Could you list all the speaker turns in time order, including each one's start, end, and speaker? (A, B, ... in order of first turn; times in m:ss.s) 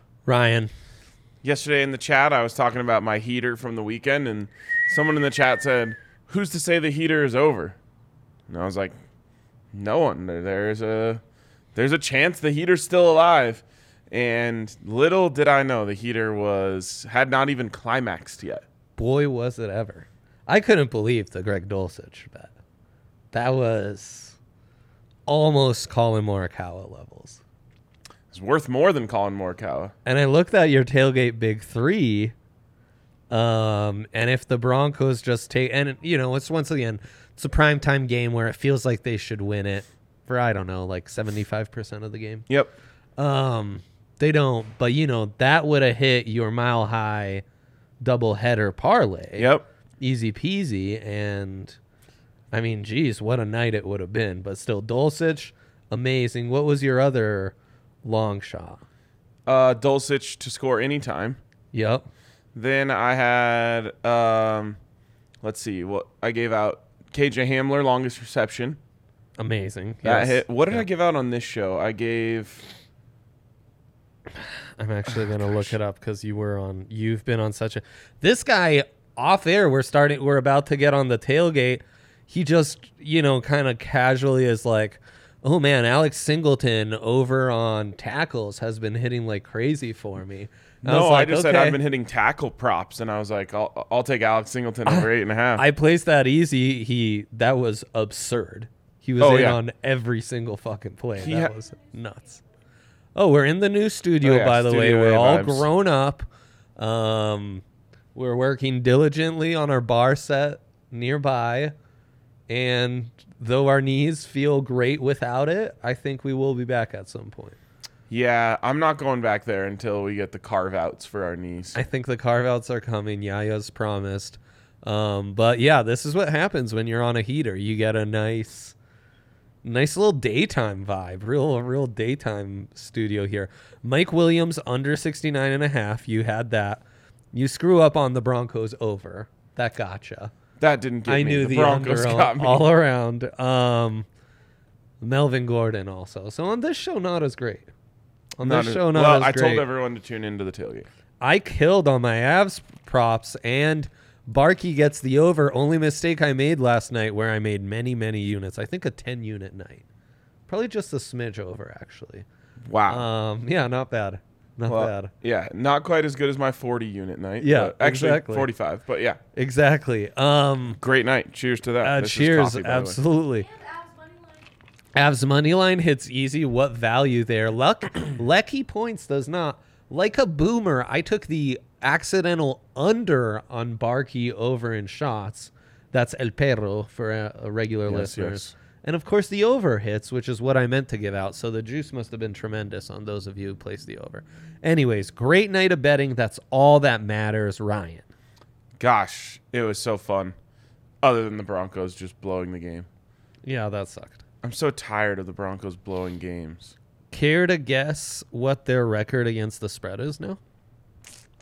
0:00.2-0:00.7 A
0:01.4-0:07.8 B
0:08.5-0:09.0 B
0:09.7-0:11.2 B
0:11.8-0:18.6 B
0:19.0-0:22.5 A
0:23.3-0:24.4 A
0:25.3-0:27.4 A
0:28.3-0:29.9 B
0:30.0-0:32.3 A
0:33.3-0:42.5 A
0:43.2-0:47.4 A
0:48.0-0:51.8 A
0:49.4-0:49.6 B
0:52.5-0:58.8 A
0:59.4-1:01.4 B
1:01.7-1:02.1 A
1:02.5-1:04.8 B
1:05.4-1:08.8 B
1:09.4-1:10.8 A
1:10.0-1:12.7 B
1:14.3-1:31.8 A
1:15.1-1:15.7 B
1:30.8-1:35.6 B
1:34.8-1:42.4 A
1:39.2-1:39.6 B
1:41.2-1:41.5 B
1:43.1-1:47.6 A
1:44.2-1:45.7 B
1:48.1-1:51.7 A
1:52.5-1:57.6 A
1:58.1-2:01.8 B
2:01.7-2:08.8 A
2:09.6-2:20.3 A
2:20.6-2:22.7 B
2:21.1-2:24.1 A
2:25.0-2:27.7 A
2:28.4-2:29.6 A
2:28.4-2:30.9 B
2:31.2-2:39.8 A
2:40.5-2:42.2 A
2:42.6-2:43.1 B
2:42.9-2:45.1 A
2:44.7-2:49.2 B
2:47.4-2:48.5 A
2:49.4-2:50.8 A
2:50.8-2:53.0 B
2:51.8-2:53.5 A
2:54.9-3:18.0 A
3:07.9-3:08.5 B
3:18.8-3:20.4 B
3:21.0-3:22.9 B
3:23.4-3:24.2 A
3:24.4-3:26.8 B
3:27.1-3:30.4 A